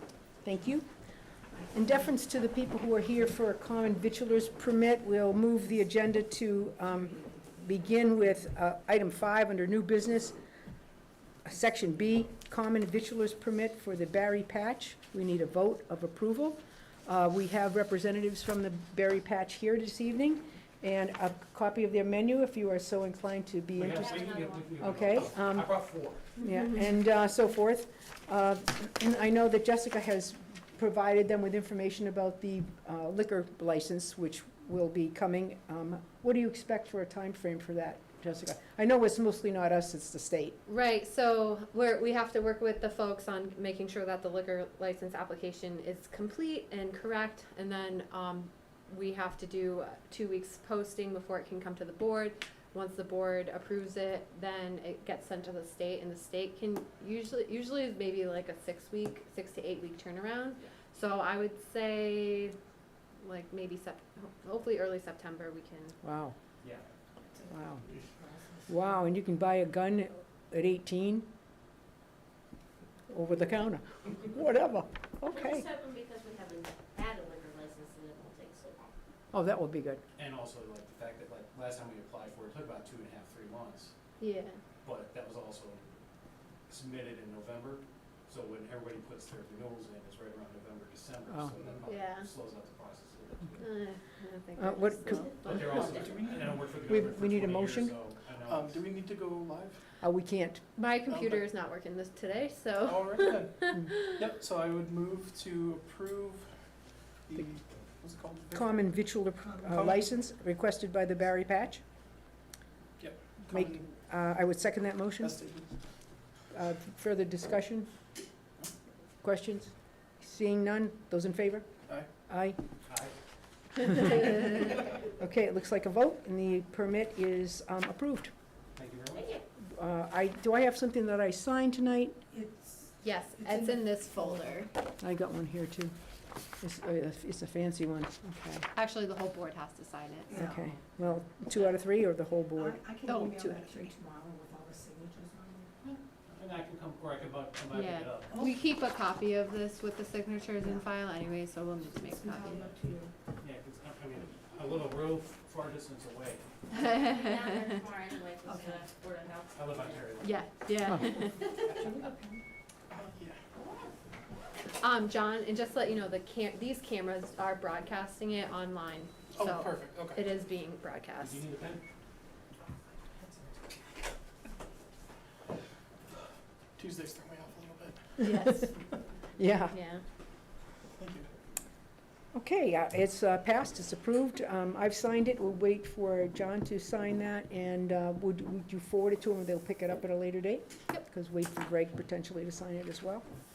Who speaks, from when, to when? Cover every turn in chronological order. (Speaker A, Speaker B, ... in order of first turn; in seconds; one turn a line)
Speaker A: 0.4-0.9
Speaker A: 1.7-10.4
Speaker A: 11.4-24.2
Speaker B: 23.7-26.2
Speaker C: 24.0-24.7
Speaker A: 24.8-25.7
Speaker A: 26.4-40.6
Speaker D: 40.6-62.5
Speaker D: 63.2-66.0
Speaker A: 66.0-66.3
Speaker A: 67.5-67.8
Speaker A: 68.7-71.3
Speaker A: 73.1-75.6
Speaker C: 75.2-78.9
Speaker A: 79.3-80.0
Speaker B: 80.2-83.9
Speaker D: 84.2-84.6
Speaker B: 84.8-85.9
Speaker B: 86.7-93.6
Speaker A: 91.3-91.5
Speaker D: 91.8-92.3
Speaker D: 93.6-96.0
Speaker A: 94.6-95.3
Speaker C: 95.2-96.3
Speaker B: 95.5-98.8
Speaker E: 95.7-96.4
Speaker A: 96.8-98.0
Speaker E: 98.4-99.8
Speaker A: 100.0-100.6
Speaker D: 100.8-104.2
Speaker E: 101.1-101.5
Speaker E: 102.8-106.5
Speaker E: 107.3-108.7
Speaker A: 108.5-111.8
Speaker E: 109.7-110.0
Speaker E: 113.0-113.8
Speaker A: 113.5-115.3
Speaker E: 115.2-115.7
Speaker A: 116.5-117.9
Speaker A: 119.2-121.7
Speaker A: 122.3-122.6
Speaker B: 122.9-123.1
Speaker A: 123.8-128.3
Speaker B: 128.7-129.3
Speaker A: 129.6-132.3
Speaker F: 132.4-133.8
Speaker D: 133.0-134.7
Speaker A: 135.0-135.9
Speaker A: 136.6-138.6
Speaker D: 138.7-140.5
Speaker F: 140.3-140.5
Speaker A: 140.3-142.8
Speaker F: 142.6-145.9
Speaker D: 143.0-143.9
Speaker B: 146.3-148.3
Speaker D: 147.7-152.7
Speaker F: 152.1-153.1
Speaker C: 152.5-152.8
Speaker B: 153.4-156.4
Speaker D: 156.7-157.8
Speaker C: 156.9-160.1
Speaker B: 159.5-160.4
Speaker D: 160.2-161.8
Speaker F: 161.9-162.4
Speaker E: 162.9-163.4
Speaker D: 164.8-171.4
Speaker E: 169.3-170.2
Speaker B: 171.2-171.8
Speaker E: 176.8-178.2
Speaker D: 178.2-178.7
Speaker A: 178.4-178.7
Speaker A: 179.4-179.8
Speaker D: 179.7-180.0
Speaker E: 181.0-181.3
Speaker A: 182.3-193.2